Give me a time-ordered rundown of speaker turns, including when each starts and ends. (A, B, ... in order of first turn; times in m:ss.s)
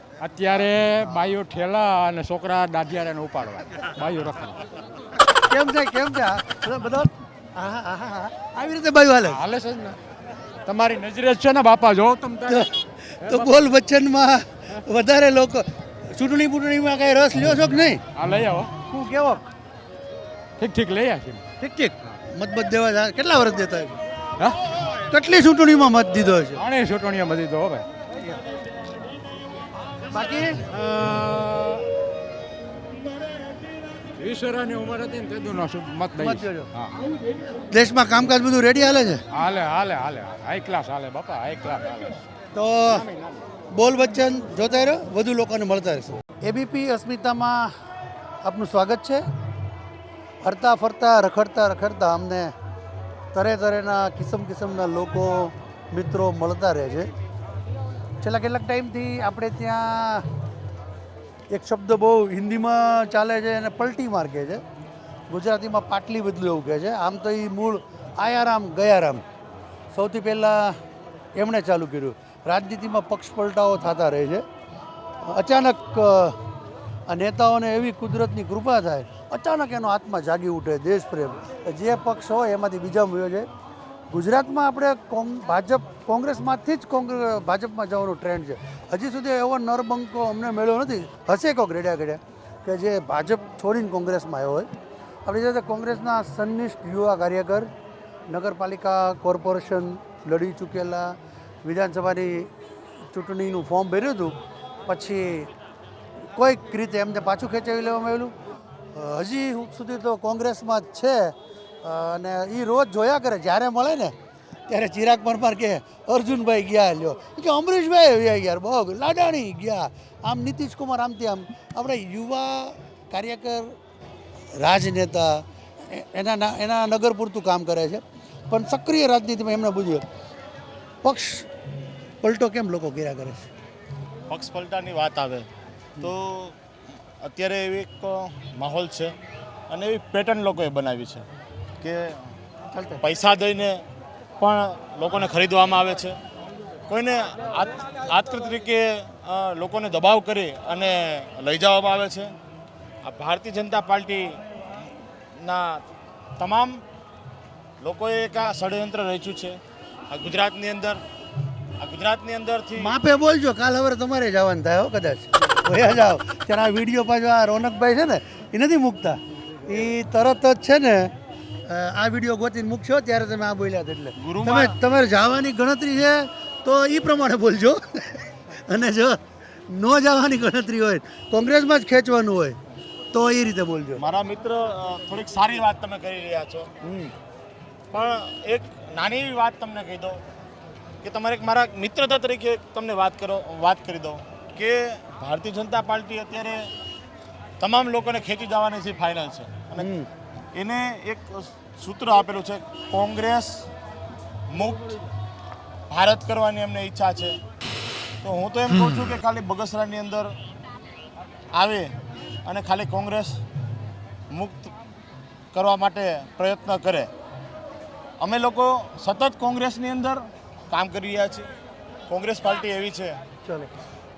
0:00.2-0:04.6 A
0:05.5-0:09.4 B
0:09.3-0:10.0 A
0:10.6-0:12.7 A
0:12.5-0:18.0 B
0:13.2-0:13.7 A
0:18.1-0:18.7 A
0:18.9-0:19.5 B
0:20.6-0:21.4 A
0:21.6-0:24.0 B
0:25.1-0:26.6 B
0:26.6-0:27.8 A
0:30.1-0:30.6 B
0:30.7-0:31.8 A
0:34.2-0:36.9 A
0:36.2-0:36.7 B
0:37.7-0:39.2 B
0:39.3-0:42.2 A
0:42.5-0:43.0 B
0:42.9-0:43.4 A
0:43.7-0:47.7 B
0:48.4-0:49.2 B
0:50.4-0:52.5 B
0:53.3-0:57.1 B
0:58.2-1:00.2 B
1:01.5-1:04.6 B
1:05.3-1:09.2 B
1:09.9-1:10.8 B
1:11.3-1:14.4 B
1:15.2-1:16.4 B
1:17.1-1:23.5 B
1:24.1-1:34.7 B
1:35.2-1:37.7 B
1:38.3-1:42.5 B
1:43.1-1:45.5 B
1:46.3-1:48.3 B
1:48.9-1:54.1 B
1:54.7-2:03.8 B
2:04.6-2:10.0 B
2:11.0-2:11.5 B
2:12.2-2:13.5 B
2:14.3-2:15.5 C
2:16.0-2:16.6 C
2:17.2-2:19.1 C
2:19.7-2:21.2 C
2:21.8-2:22.3 C
2:22.7-2:23.0 B
2:23.0-2:23.8 C
2:24.4-2:26.1 C
2:26.9-2:32.3 C
2:33.0-2:34.3 C
2:35.4-2:35.8 C
2:36.4-2:36.8 C
2:37.8-2:39.6 C
2:40.1-2:41.0 C
2:41.8-2:42.9 C
2:42.8-2:51.1 B
2:51.6-3:02.6 B
2:54.2-2:54.8 C
3:03.1-3:04.0 B
3:04.0-3:06.7 C
3:06.8-3:07.1 B
3:07.9-3:10.2 C
3:11.0-3:16.6 C
3:17.6-3:19.9 C
3:19.8-3:20.1 B
3:20.5-3:23.6 C
3:24.5-3:25.0 C
3:25.9-3:27.4 C
3:28.2-3:30.3 C
3:31.5-3:31.9 C
3:32.4-3:33.3 C
3:34.3-3:34.7 C
3:35.5-3:37.1 C
3:38.2-3:41.5 C
3:42.1-3:43.1 C
3:43.4-3:43.7 B